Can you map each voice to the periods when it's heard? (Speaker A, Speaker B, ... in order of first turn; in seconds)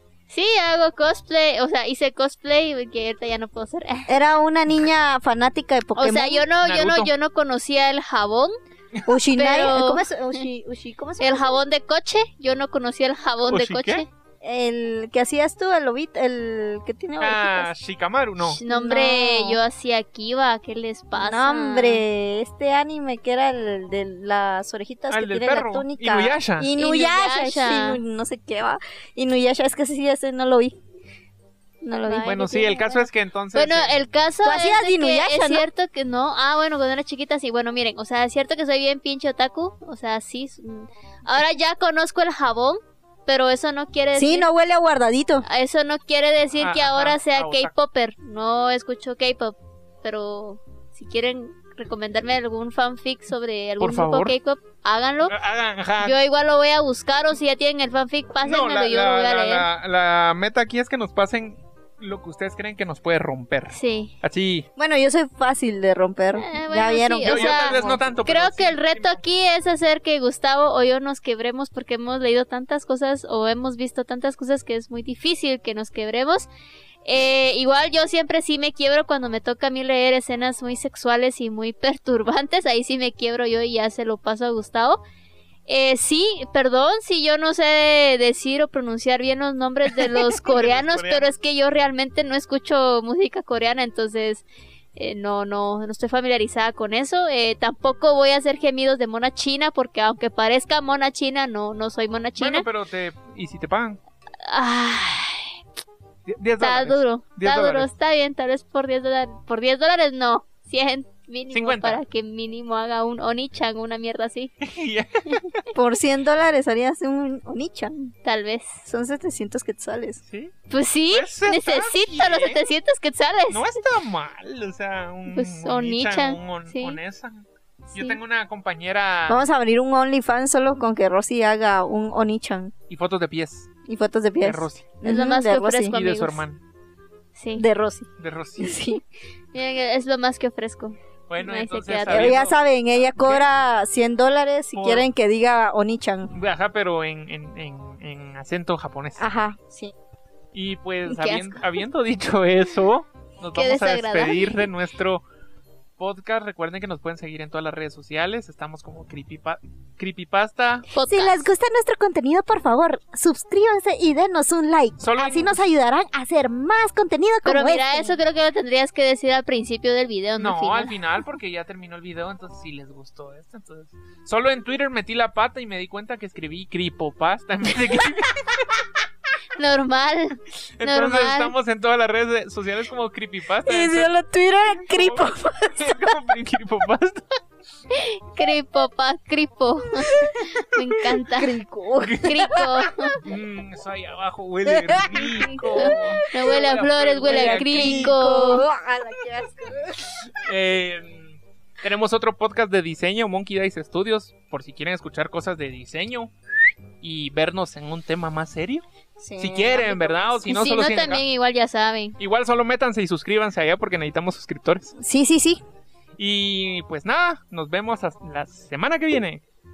Speaker A: 0.3-4.1, 6.0-8.5, 9.3-10.1, 11.2-14.1, 18.6-22.0, 26.8-28.0, 33.5-44.5, 45.4-55.3, 56.0-59.7, 63.7-64.1, 66.4-76.5, 77.0-85.0, 85.7-102.7, 104.5-105.6, 106.6-114.5, 118.2-118.8, 120.7-123.8, 125.3-127.0, 135.1-136.4, 137.3-137.7, 139.5-142.5, 151.1-151.7, 153.5-154.6, 160.9-161.4, 167.4-170.9, 179.6-181.5, 187.9-191.6, 192.2-193.2, 195.2-198.7, 210.5-212.2
Speaker B: 4.1-6.5, 9.1-11.6, 14.4-17.7, 18.5-19.6, 21.1-30.8, 31.8-33.1, 34.4-35.6, 44.1-45.5, 64.8-68.0, 115.8-118.1, 118.8-120.2, 129.3-132.7, 133.9-136.0, 137.6-139.0, 142.1-146.3, 149.2-149.9, 161.1-168.2, 183.7-186.0, 191.4-192.9, 194.7-200.3, 209.2-210.5, 215.0-215.6
Speaker C: 6.6-7.1, 13.5-14.1, 17.2-18.6, 25.1-26.7, 32.1-33.9, 46.6-47.7, 53.8-54.4, 55.2-56.2, 58.4-64.7, 67.2-69.2, 90.0-91.3, 102.4-104.0, 106.3-107.9, 111.5-112.0, 114.6-115.6, 120.3-120.5, 121.1-122.6, 123.5-129.4, 132.9-133.7, 134.4-134.9, 135.9-136.6, 138.2-138.8, 141.3-143.5, 144.7-145.1, 146.3-149.3, 150.5-155.2, 156.0-160.9, 165.0-165.6, 170.4-178.7, 180.8-184.1, 184.8-187.4, 193.2-198.6, 200.3-206.3, 207.0-208.8, 209.4-211.2, 212.2-215.0, 216.2-219.4